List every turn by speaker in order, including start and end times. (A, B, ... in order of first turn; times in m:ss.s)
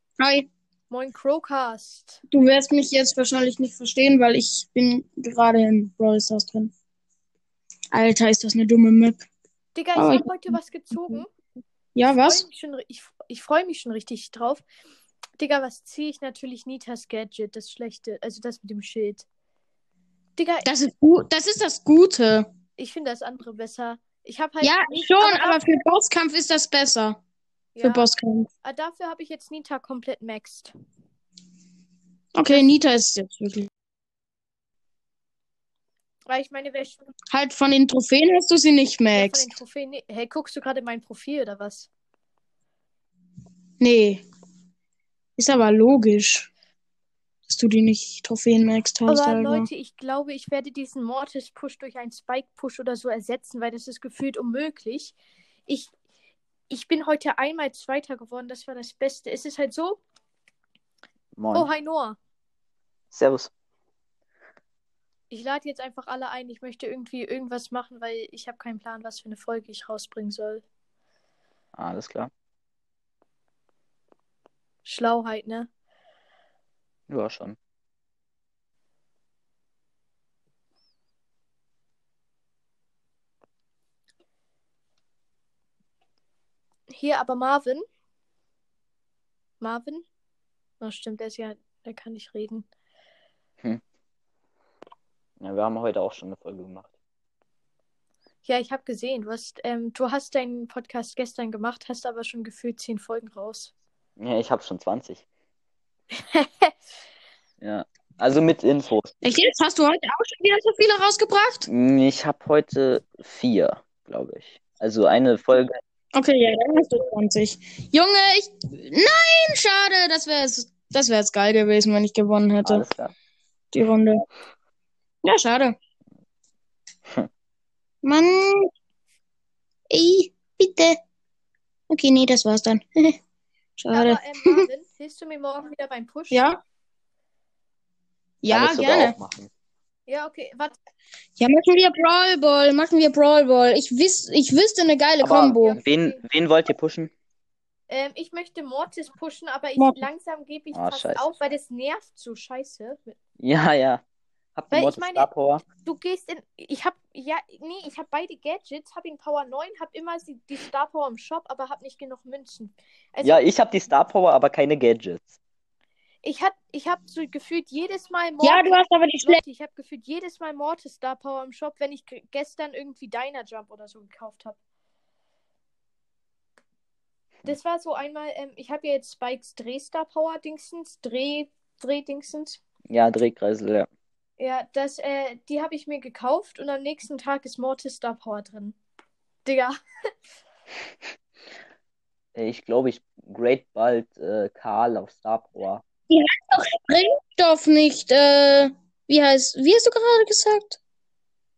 0:00.2-0:00.5 A
0:00.9-0:02.2 B
0:02.3-0:06.7 A
0:07.9-0:09.2 A
0:09.7-0:11.3 B
0:10.0-0:10.5 A
0:11.9-0:12.4 A
0:12.2-0:14.6 B
0:15.4-0:19.2 B
0:20.4-0:20.7 B
0:20.6-0:22.5 A
0:22.8-0:25.6 B
0:24.6-0:27.2 A
0:27.8-0:28.1 B
0:27.8-0:28.5 A
0:28.6-0:30.7 B
0:32.3-0:33.7 A
0:36.3-0:37.1 B
0:37.3-0:39.5 A
0:39.1-0:41.9 B
0:43.8-0:44.2 A
0:45.4-0:46.5 A
0:47.5-0:49.7 A
0:49.1-0:55.2 B
0:55.7-0:55.9 B
0:56.7-1:00.0 B
1:01.4-1:01.7 C
1:01.5-1:02.2 B
1:03.1-1:03.5 C
1:05.3-1:10.6 B
1:11.8-1:12.3 C
1:14.8-1:15.7 B
1:17.1-1:17.6 C
1:26.9-1:27.8 B
1:29.6-1:30.0 B
1:30.8-1:32.6 B
1:35.4-1:36.9 C
1:38.4-1:43.7 B
1:44.2-1:45.2 C
1:46.2-1:46.7 B
1:47.6-1:49.1 C
1:49.2-1:51.7 A
1:51.7-1:55.8 C
1:56.1-2:02.8 A
2:02.6-2:03.1 C
2:03.7-2:04.2 A
2:05.2-2:05.8 A
2:08.0-2:08.7 A
2:09.9-2:11.0 A
2:11.9-2:13.2 A
2:13.8-2:14.6 A
2:13.9-2:16.4 B
2:16.3-2:16.6 A
2:18.4-2:19.2 A
2:18.5-2:19.5 C
2:20.1-2:20.8 B
2:21.4-2:25.8 A
2:25.2-2:27.1 C
2:25.6-2:26.2 B
2:27.9-2:33.2 B
2:29.8-2:30.0 A
2:30.7-2:31.2 C
2:33.4-2:34.0 C
2:34.5-2:35.6 C
2:34.7-2:35.3 B
2:35.8-2:43.4 B
2:43.2-2:45.4 C
2:46.2-2:54.6 B
2:48.4-2:49.4 A
2:57.4-3:02.6 B
3:02.9-3:03.9 C
3:04.4-3:08.8 B
3:09.4-3:09.7 B
3:12.3-3:15.8 C
3:16.1-3:20.8 A